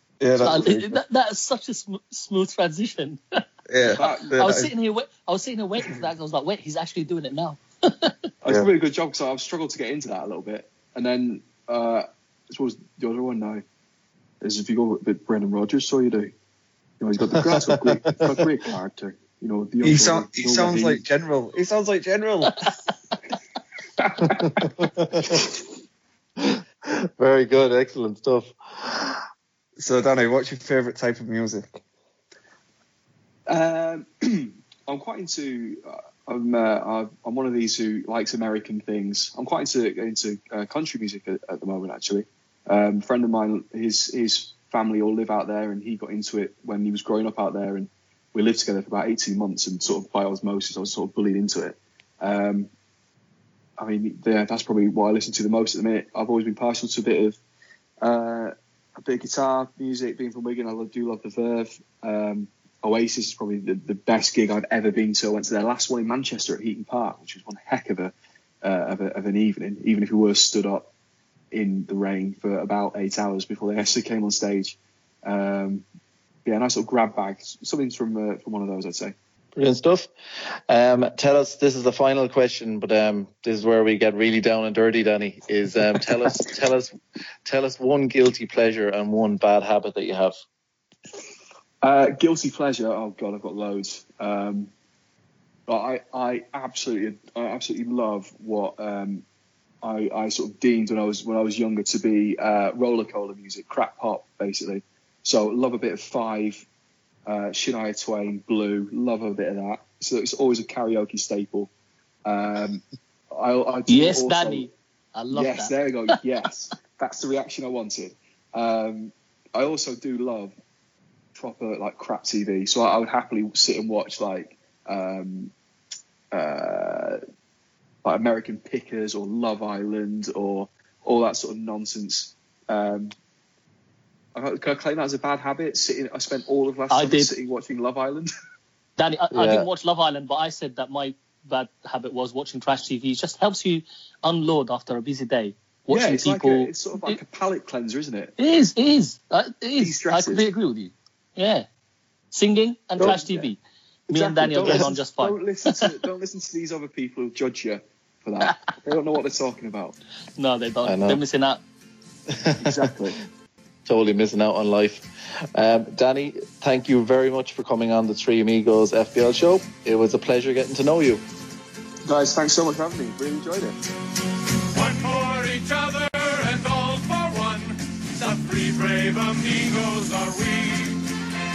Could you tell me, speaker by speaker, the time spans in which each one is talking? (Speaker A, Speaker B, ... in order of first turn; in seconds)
Speaker A: 0.2-1.0, 3.7-4.7, 19.8-22.6, 29.8-31.8
Speaker B: 0.4-8.1, 113.9-115.7, 136.9-137.3, 139.0-147.2, 148.4-151.7, 152.3-153.6, 154.1-155.8, 160.4-161.6
Speaker C: 3.9-4.5, 8.4-13.6, 14.4-16.3, 17.0-21.0, 24.2-24.5, 33.5-52.7, 53.8-57.4, 58.0-70.9, 71.5-75.8, 76.5-79.1, 91.8-94.7, 95.7-99.2, 99.8-106.6, 107.3-111.7, 112.3-114.7, 115.3-120.6, 121.4-125.5, 126.3-127.2, 128.0-133.1, 134.3-138.3, 145.9-148.3, 149.8-150.5, 153.0-153.5, 154.1-160.0, 162.6-163.2, 172.1-173.8
Speaker D: 18.1-18.4, 24.2-25.5, 26.4-29.2, 79.5-80.1, 80.7-86.9, 87.5-90.3, 139.3-139.7, 153.0-153.2, 160.8-161.2, 163.9-171.2
Speaker E: 174.7-181.0